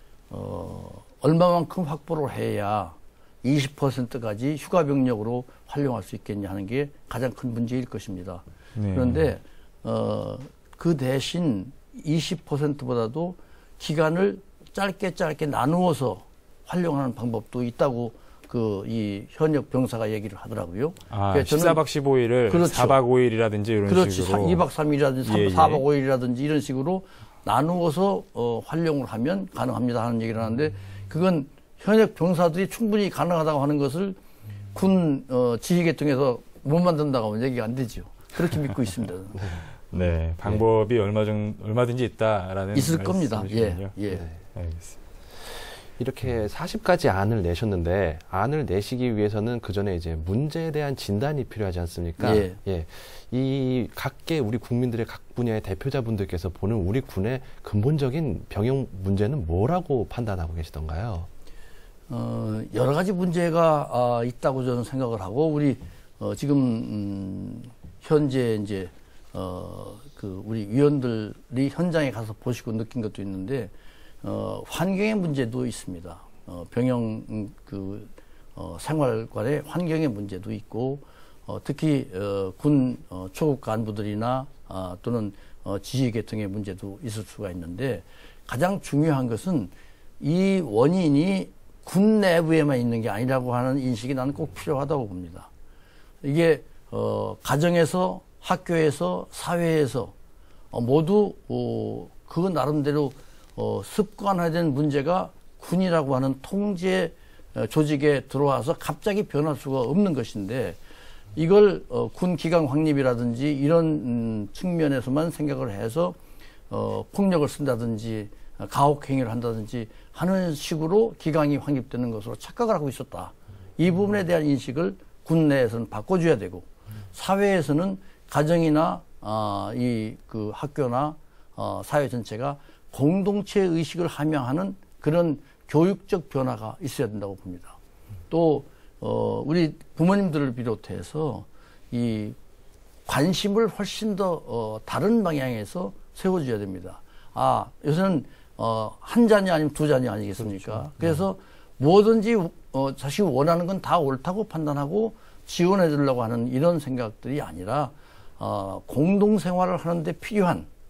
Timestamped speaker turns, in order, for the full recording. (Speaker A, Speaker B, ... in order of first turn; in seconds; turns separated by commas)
Speaker A: 0.3-21.8, Speaker B: 8.7-9.3, Speaker B: 21.1-24.6, Speaker A: 22.5-23.0, Speaker A: 23.9-34.2, Speaker B: 25.2-25.8, Speaker A: 34.7-39.6, Speaker B: 39.8-44.0, Speaker A: 42.7-44.2, Speaker B: 44.5-45.0, Speaker C: 46.0-61.3, Speaker A: 52.2-52.6, Speaker A: 62.1-73.7, Speaker A: 74.2-95.5, Speaker A: 96.2-100.1, Speaker A: 100.7-110.8, Speaker A: 111.3-116.2, Speaker A: 116.7-137.8, Speaker A: 138.3-142.3, Speaker A: 143.1-160.7, Speaker B: 150.8-151.2